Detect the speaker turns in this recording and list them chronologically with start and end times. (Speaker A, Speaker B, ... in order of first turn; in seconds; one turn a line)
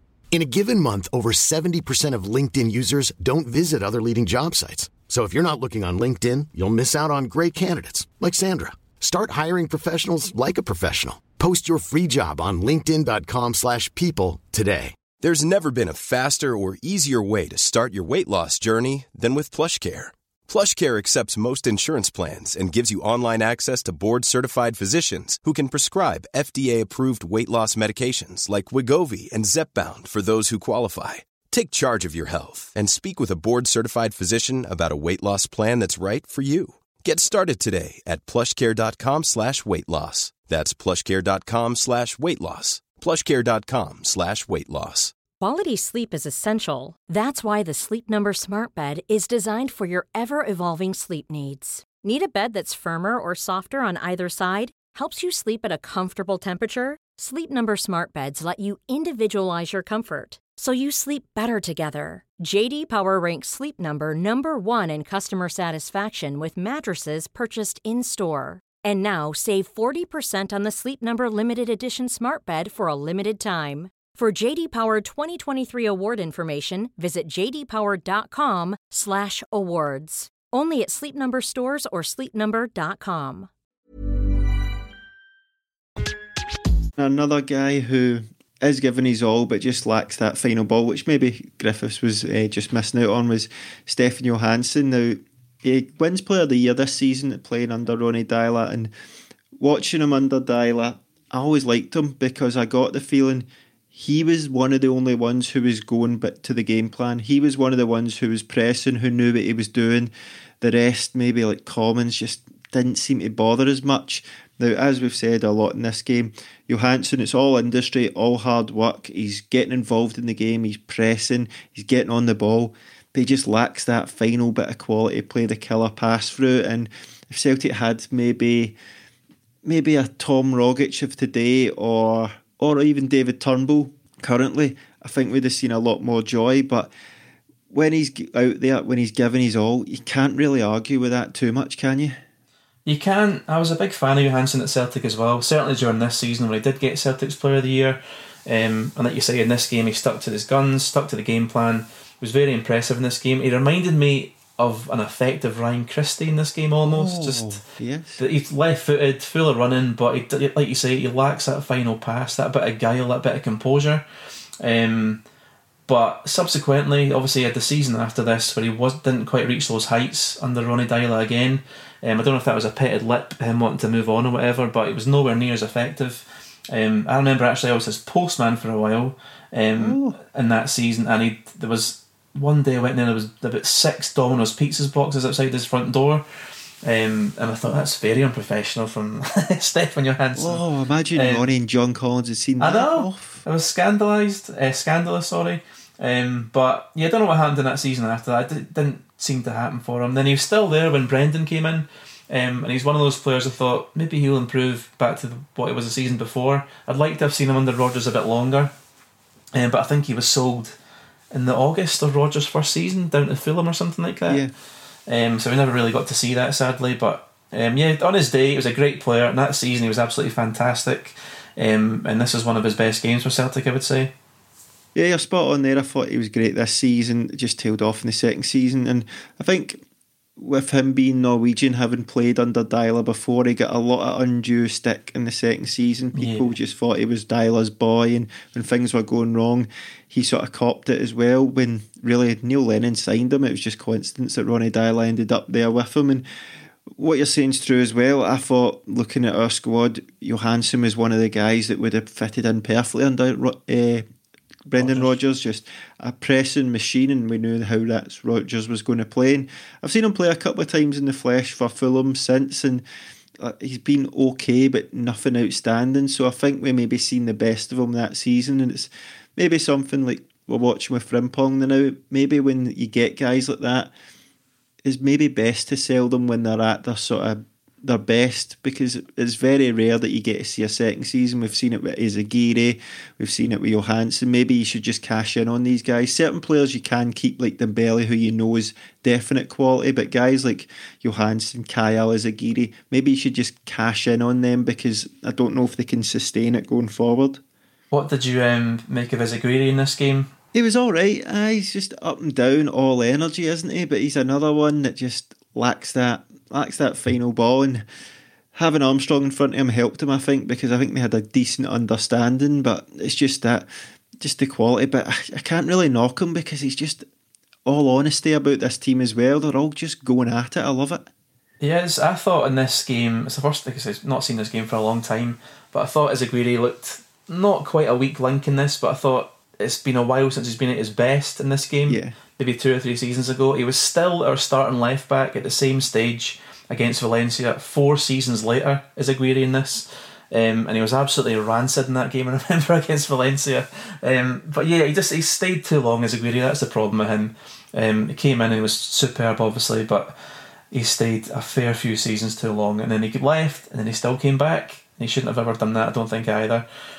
Speaker A: 0.3-15.0
Speaker B: 15.2-45.1
Speaker C: 45.4-83.5
Speaker D: 87.0-98.9
Speaker D: 99.6-128.8
Speaker D: 129.6-136.9
Speaker D: 137.7-142.2
Speaker E: 142.8-157.6
Speaker D: 156.9-158.2
Speaker E: 158.2-164.0
Speaker E: 164.6-165.2
Speaker E: 165.9-186.2
Speaker D: 179.8-180.2
Speaker E: 186.8-190.6
Speaker D: 190.3-193.4
Speaker E: 191.1-191.4
Speaker E: 192.6-208.7
Speaker E: 209.5-210.8
Speaker E: 211.3-214.4
Speaker E: 215.1-224.1
Speaker D: 224.9-229.8
Speaker D: 230.4-246.2
Speaker E: 236.1-236.5
Speaker D: 246.9-254.0
Speaker D: 254.7-262.8
Speaker E: 254.8-255.2
Speaker D: 263.4-273.9
Speaker D: 274.8-297.4
Speaker E: 297.9-300.3
Speaker D: 300.5-307.8
Speaker D: 308.5-313.7
Speaker D: 314.2-317.1
Speaker D: 317.6-321.0
Speaker E: 321.6-350.1
Speaker D: 331.9-332.1
Speaker E: 350.7-356.6